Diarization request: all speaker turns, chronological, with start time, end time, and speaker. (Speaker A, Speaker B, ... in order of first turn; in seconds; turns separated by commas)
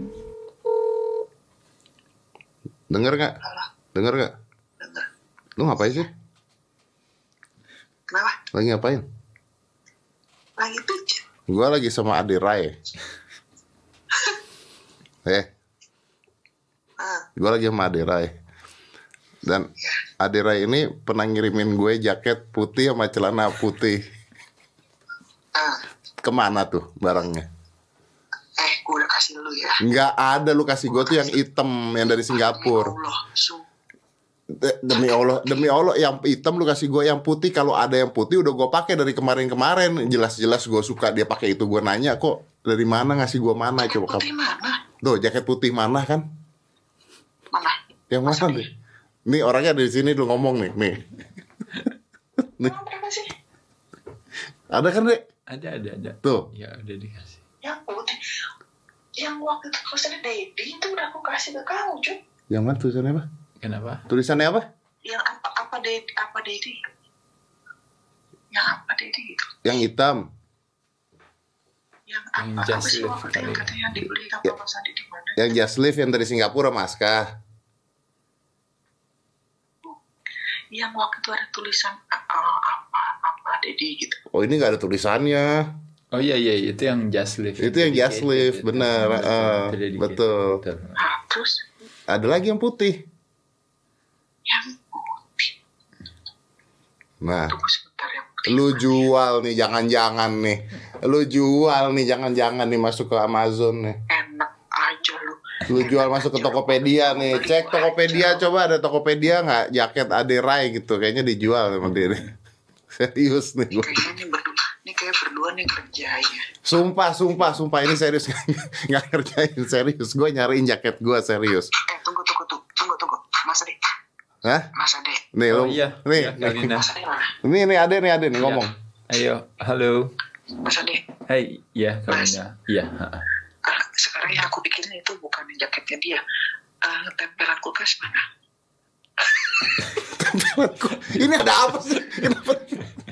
Speaker A: 2.9-3.4, Speaker A: 3.9-4.3, Speaker B: 4.8-5.1, Speaker A: 5.6-6.1, Speaker B: 8.1-8.4, Speaker A: 8.5-9.0, Speaker B: 10.6-11.2, Speaker A: 11.5-12.8, Speaker B: 14.1-14.4, Speaker B: 17.0-17.2, Speaker A: 17.4-18.4, Speaker A: 20.2-24.0, Speaker B: 25.5-25.8, Speaker A: 26.2-27.5, Speaker B: 28.6-29.8, Speaker A: 29.8-32.9, Speaker B: 30.9-31.4, Speaker B: 32.3-33.6, Speaker A: 34.5-44.2, Speaker B: 34.9-35.7, Speaker B: 43.8-44.8, Speaker A: 45.0-46.2, Speaker B: 47.5-48.7, Speaker A: 48.1-48.7, Speaker A: 49.3-51.0, Speaker B: 52.6-53.3, Speaker A: 54.7-55.2, Speaker C: 55.5-57.4, Speaker A: 56.2-56.5, Speaker B: 57.6-58.5, Speaker B: 59.1-62.2, Speaker A: 62.5-63.2, Speaker C: 63.6-64.0, Speaker A: 64.1-64.7, Speaker B: 65.0-66.8, Speaker B: 68.5-69.6, Speaker A: 69.6-70.3, Speaker B: 72.1-75.5, Speaker C: 72.4-74.0, Speaker A: 75.4-77.3, Speaker B: 80.7-84.2, Speaker A: 84.3-85.7, Speaker C: 86.1-91.0, Speaker A: 87.6-90.6, Speaker B: 91.0-91.6, Speaker A: 92.1-93.0, Speaker B: 94.5-95.5, Speaker A: 97.2-97.6, Speaker B: 97.5-99.0, Speaker A: 98.5-104.0, Speaker B: 104.1-108.5, Speaker A: 105.7-112.3, Speaker A: 113.0-114.1, Speaker B: 113.7-116.5, Speaker A: 116.6-121.7, Speaker B: 121.8-123.9, Speaker A: 124.4-124.7, Speaker B: 124.7-125.3, Speaker A: 125.3-126.7, Speaker C: 125.5-126.9, Speaker B: 126.6-127.3, Speaker A: 127.4-128.7, Speaker C: 128.4-130.1, Speaker B: 130.6-131.1, Speaker C: 131.3-133.3, Speaker B: 132.1-132.4, Speaker B: 133.6-136.2, Speaker B: 136.8-138.3, Speaker B: 139.2-139.7, Speaker A: 140.2-142.8